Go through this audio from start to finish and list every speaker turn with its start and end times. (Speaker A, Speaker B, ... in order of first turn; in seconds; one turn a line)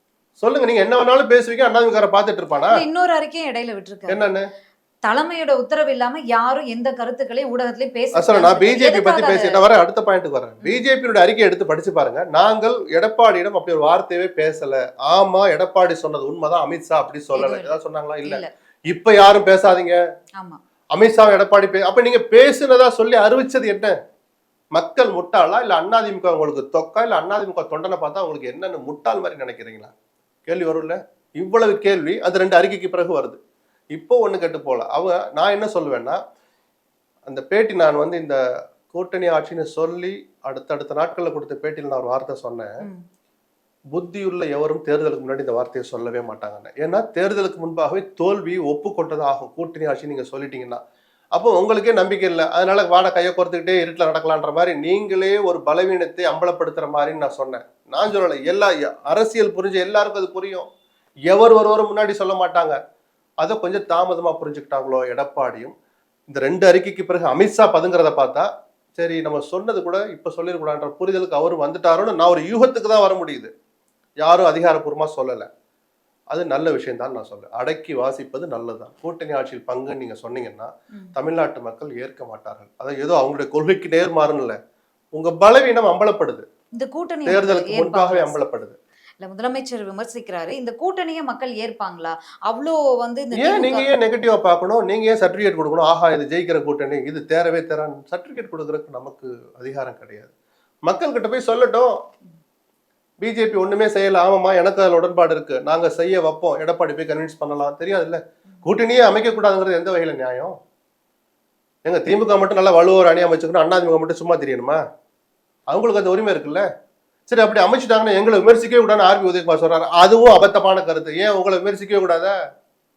Speaker A: 0.4-2.8
Speaker B: 2.7-4.2
Speaker A: 4.1-4.4
Speaker B: 5.0-9.6
Speaker A: 8.1-20.0
Speaker B: 17.3-18.5
Speaker A: 20.9-23.9
Speaker A: 24.7-29.9
Speaker A: 30.4-33.4
Speaker A: 33.9-36.2
Speaker A: 37.3-42.8
Speaker A: 43.9-50.8
Speaker A: 51.3-60.7
Speaker A: 61.3-62.8
Speaker A: 63.4-65.7
Speaker A: 66.3-73.5
Speaker A: 74.2-75.5
Speaker A: 76.3-84.6
Speaker A: 85.1-86.4
Speaker B: 86.7-88.5
Speaker A: 87.2-88.8
Speaker B: 89.2-93.9
Speaker A: 93.4-100.3
Speaker A: 100.8-101.9
Speaker A: 103.2-110.5
Speaker A: 111.8-114.8
Speaker A: 115.7-116.6
Speaker A: 117.3-122.3